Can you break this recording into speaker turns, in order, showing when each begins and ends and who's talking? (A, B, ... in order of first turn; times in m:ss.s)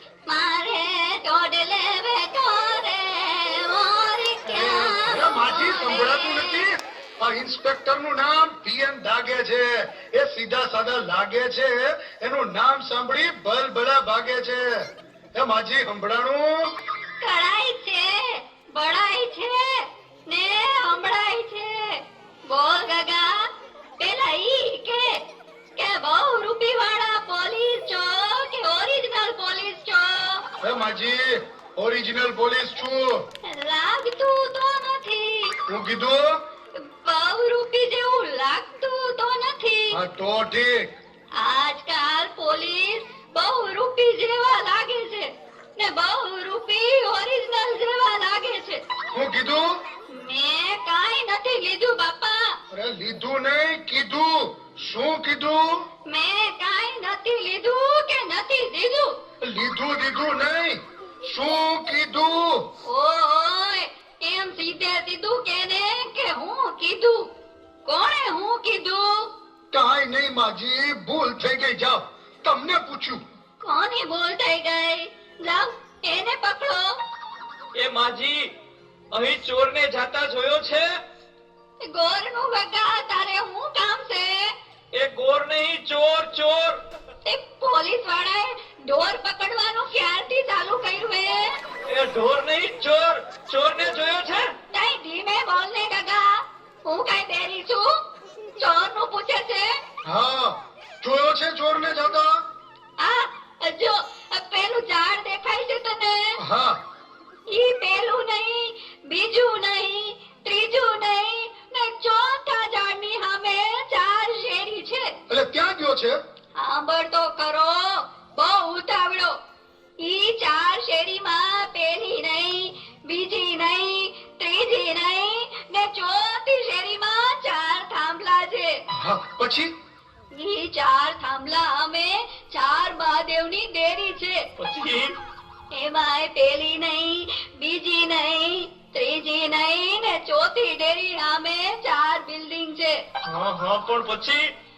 0:00.3-0:06.7 A
0:04.5-0:14.8 B
0:15.4-0:16.7 B
0:17.2-0:23.5 A
0:24.0-0:25.2 A
0:25.8-0:30.4 A
0:30.6-0:33.2 B
0:33.4-0:35.6 A
0:35.7-0:36.4 B
0:36.7-0:40.0 A
0:39.9-0:40.9 B
0:41.3-0:48.8 A
0:49.1-0:49.6 B
0:50.1-0:52.6 A
0:52.7-0:55.8 B
0:56.1-0:59.2 A
0:59.4-1:02.6 B
1:02.8-1:07.3 A
1:07.8-1:09.3 A
1:09.7-1:13.2 B
1:13.6-1:17.0 A
1:17.7-1:18.5 C
1:19.1-1:20.9 C
1:21.8-1:24.5 A
1:24.9-1:26.8 C
1:27.2-1:31.5 A
1:31.9-1:34.5 C
1:34.7-1:37.9 A
1:38.6-1:39.7 A
1:40.0-1:42.3 B
1:43.0-1:46.4 A
1:46.4-1:46.8 B
1:47.5-1:55.1 A
1:55.3-1:56.2 B
1:56.6-1:59.4 A
2:00.0-2:08.8 A
2:08.9-2:09.7 B
2:10.3-2:14.5 A
2:14.6-2:15.2 C
2:15.7-2:23.0 A
2:23.3-2:24.4 C